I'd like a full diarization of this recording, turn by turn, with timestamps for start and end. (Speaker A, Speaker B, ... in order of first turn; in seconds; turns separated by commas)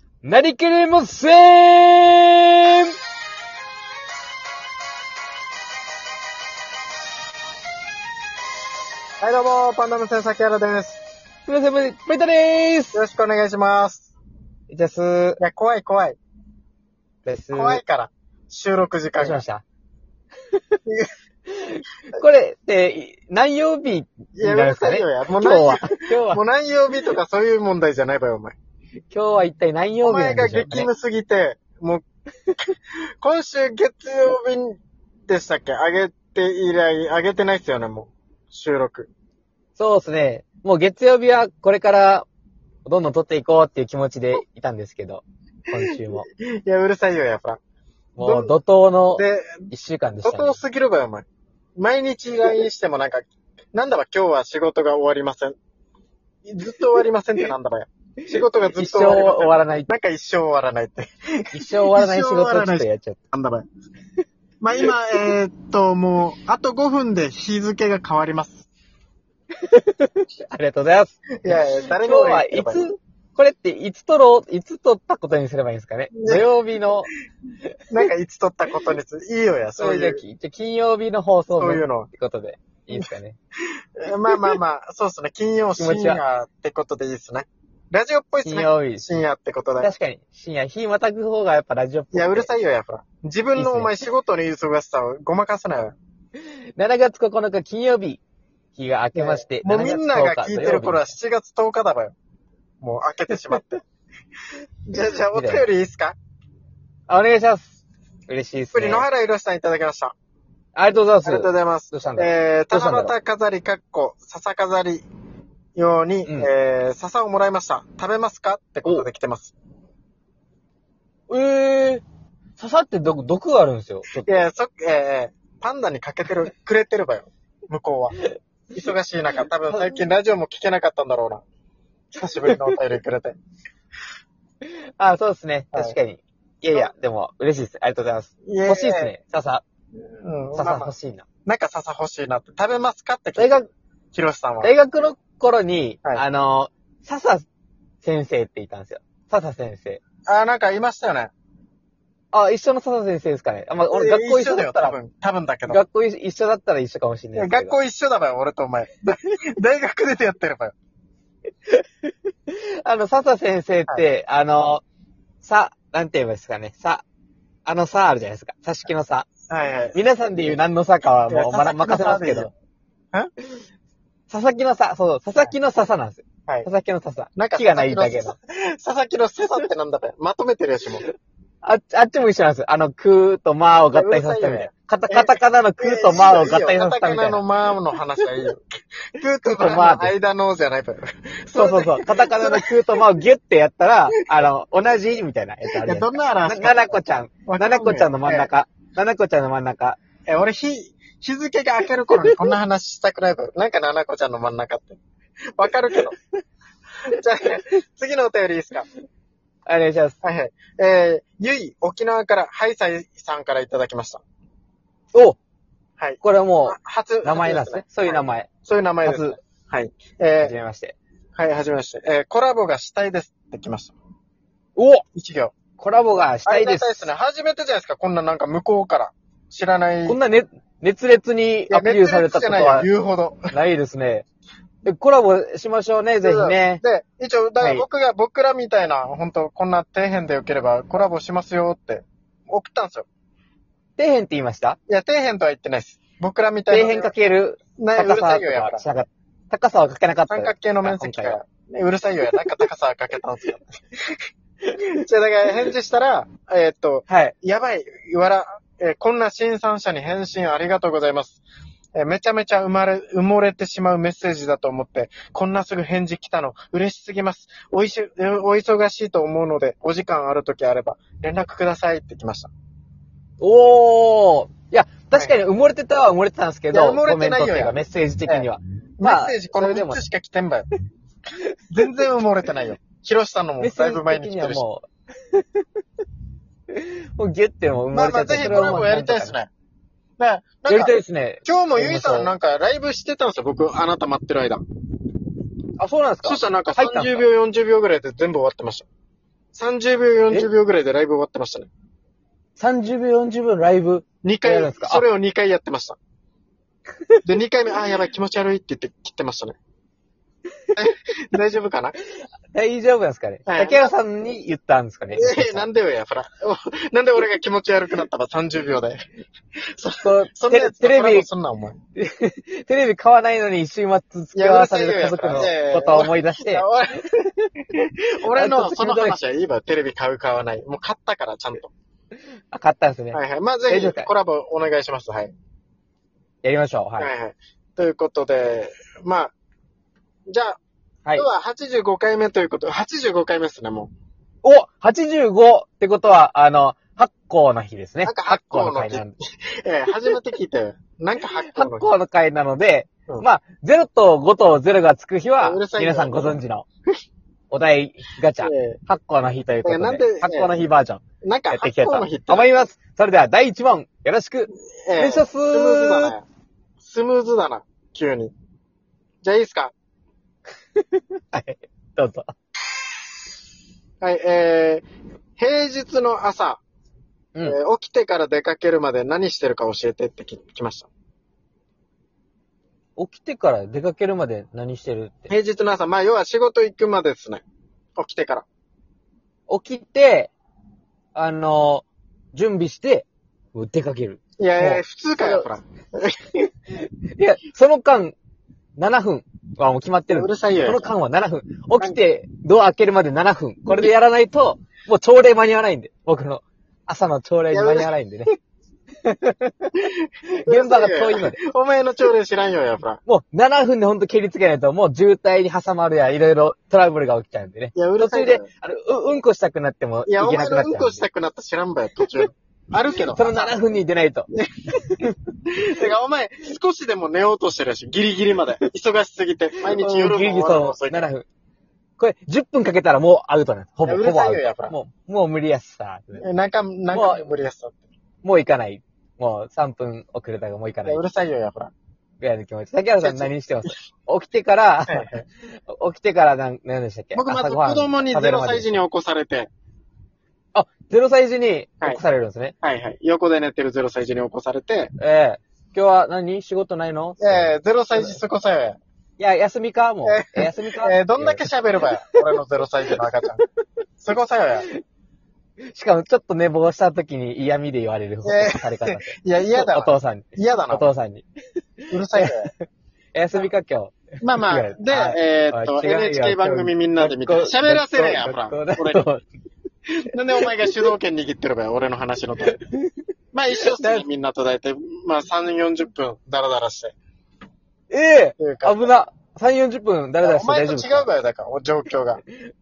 Speaker A: 0.2-2.9, Speaker B: 9.2-11.0, Speaker A: 11.5-13.0, Speaker B: 12.9-14.1, Speaker A: 14.7-15.4, Speaker B: 15.4-16.2, Speaker A: 17.2-17.8, Speaker B: 17.5-19.4, Speaker A: 19.1-19.6, Speaker A: 21.5-26.4, Speaker B: 24.4-28.6, Speaker A: 29.1-30.9, Speaker B: 30.0-32.0, Speaker B: 33.2-39.1, Speaker A: 39.8-42.2, Speaker A: 42.8-46.2, Speaker B: 45.9-47.6, Speaker A: 48.1-50.6, Speaker B: 48.2-48.5, Speaker B: 49.1-49.7, Speaker B: 50.2-51.2, Speaker B: 51.8-55.5, Speaker B: 56.5-63.6, Speaker A: 58.8-59.9, Speaker A: 61.5-63.2, Speaker B: 64.6-68.7, Speaker A: 69.6-77.1, Speaker B: 71.4-72.8, Speaker B: 76.1-76.5, Speaker B: 77.9-80.2, Speaker A: 79.8-83.4, Speaker B: 81.6-82.1, Speaker B: 84.0-89.9, Speaker A: 85.8-86.2, Speaker A: 88.4-89.0, Speaker A: 89.8-92.5, Speaker B: 92.1-96.0, Speaker A: 93.6-94.0, Speaker A: 96.8-98.2, Speaker A: 98.8-101.1, Speaker B: 99.1-102.1, Speaker B: 102.8-103.8, Speaker B: 104.9-106.2, Speaker A: 105.3-105.6, Speaker A: 107.1-107.8, Speaker A: 108.3-109.0, Speaker B: 108.7-110.1, Speaker A: 110.7-113.1, Speaker B: 111.2-115.0, Speaker B: 115.8-119.5, Speaker A: 121.3-122.0, Speaker A: 122.6-124.4, Speaker B: 124.2-128.2, Speaker B: 128.7-131.4, Speaker A: 129.7-130.0, Speaker B: 132.1-133.3, Speaker A: 132.4-132.7, Speaker A: 134.6-139.6, Speaker B: 138.4-139.1, Speaker B: 140.2-140.9, Speaker A: 140.6-141.2, Speaker B: 141.4-143.6, Speaker A: 143.4-143.7, Speaker B: 144.1-144.7, Speaker A: 144.6-147.4, Speaker A: 148.0-150.0, Speaker B: 150.2-151.3, Speaker A: 152.3-154.9, Speaker B: 153.9-155.8, Speaker A: 155.7-157.7, Speaker B: 157.3-160.7, Speaker A: 161.7-164.8, Speaker A: 165.4-167.0, Speaker A: 167.7-169.3, Speaker B: 169.5-170.6, Speaker A: 169.9-172.5, Speaker B: 171.3-172.5, Speaker A: 174.3-178.3, Speaker B: 177.3-181.0, Speaker A: 181.6-187.4, Speaker B: 183.9-192.8, Speaker A: 189.4-190.1, Speaker A: 191.5-200.0, Speaker B: 195.8-198.5, Speaker B: 200.3-205.0, Speaker B: 205.6-206.2, Speaker B: 207.1-208.9, Speaker A: 209.7-210.2, Speaker B: 210.2-214.2, Speaker B: 216.0-220.5, Speaker A: 216.2-218.5, Speaker A: 219.0-219.4, Speaker A: 220.4-220.9, Speaker B: 221.3-223.9, Speaker A: 224.8-225.0, Speaker B: 225.1-225.5, Speaker A: 225.8-227.1, Speaker B: 226.4-230.2, Speaker A: 230.1-232.9, Speaker B: 231.7-233.5, Speaker A: 233.5-234.2, Speaker A: 234.8-236.8, Speaker B: 236.2-243.1, Speaker A: 237.6-237.8, Speaker A: 244.0-244.8, Speaker B: 244.9-247.1, Speaker A: 246.7-251.4, Speaker B: 247.8-248.9, Speaker B: 250.3-254.2, Speaker B: 254.8-261.4, Speaker A: 257.1-257.3, Speaker B: 261.9-272.5, Speaker A: 273.4-280.0, Speaker B: 276.7-278.5, Speaker B: 279.0-280.7, Speaker B: 281.7-284.6, Speaker A: 283.6-285.6, Speaker A: 286.7-289.3, Speaker B: 287.9-289.5, Speaker B: 290.2-294.6, Speaker A: 290.7-292.3, Speaker A: 295.8-297.2, Speaker B: 296.2-298.9, Speaker B: 299.5-301.7, Speaker A: 302.6-305.0, Speaker B: 304.2-306.0, Speaker B: 307.2-309.6, Speaker B: 310.8-311.9, Speaker A: 312.5-315.6, Speaker B: 313.5-313.9, Speaker B: 315.1-319.1, Speaker B: 319.8-321.8, Speaker A: 320.0-321.3, Speaker A: 321.9-326.6, Speaker B: 324.3-331.7, Speaker A: 328.3-329.2, Speaker A: 332.5-334.1, Speaker B: 333.1-335.3, Speaker A: 336.4-337.1, Speaker B: 337.0-339.3, Speaker B: 340.3-340.6, Speaker B: 341.1-343.9, Speaker A: 344.4-349.1, Speaker B: 348.0-349.1, Speaker B: 349.6-351.9, Speaker A: 351.5-356.6, Speaker B: 355.4-356.4, Speaker A: 357.5-366.1, Speaker B: 358.4-358.8, Speaker B: 359.6-360.5, Speaker B: 361.2-362.5, Speaker B: 364.7-366.2, Speaker B: 366.8-368.3, Speaker B: 369.2-369.7, Speaker A: 371.3-372.3, Speaker B: 374.0-374.8, Speaker B: 375.4-376.6, Speaker B: 377.4-380.9, Speaker A: 383.0-385.3, Speaker B: 385.3-387.4, Speaker B: 388.0-388.4, Speaker A: 389.5-390.3, Speaker A: 391.1-395.5, Speaker B: 394.4-396.2, Speaker A: 396.8-398.1, Speaker A: 398.8-408.3, Speaker B: 400.1-400.9, Speaker B: 407.5-407.9, Speaker A: 409.0-409.7, Speaker B: 409.8-413.0, Speaker A: 410.4-411.4, Speaker A: 413.1-421.0, Speaker B: 417.7-418.5, Speaker B: 420.1-423.6, Speaker A: 423.1-424.3, Speaker B: 424.3-424.9, Speaker B: 425.5-431.1, Speaker A: 429.7-431.2, Speaker A: 432.0-436.2, Speaker B: 433.9-434.7, Speaker B: 436.2-437.8, Speaker A: 436.9-437.3, Speaker A: 438.2-441.0, Speaker B: 440.8-441.7, Speaker A: 442.2-445.1, Speaker B: 443.0-443.7, Speaker B: 444.9-445.2, Speaker A: 445.7-448.6, Speaker B: 447.1-449.5, Speaker A: 450.5-452.5, Speaker B: 452.6-454.9, Speaker A: 455.0-458.1, Speaker B: 457.2-458.8, Speaker A: 459.2-461.8, Speaker B: 460.0-463.4, Speaker B: 464.0-464.7, Speaker A: 465.7-471.2, Speaker B: 468.2-470.9, Speaker B: 471.9-472.5, Speaker A: 472.1-472.6, Speaker A: 473.1-473.9, Speaker B: 474.2-479.0, Speaker A: 474.5-479.2, Speaker B: 479.9-482.6, Speaker A: 482.5-482.9, Speaker B: 483.3-486.9, Speaker A: 483.6-484.0, Speaker A: 487.9-491.1, Speaker B: 488.4-488.9, Speaker B: 490.2-492.2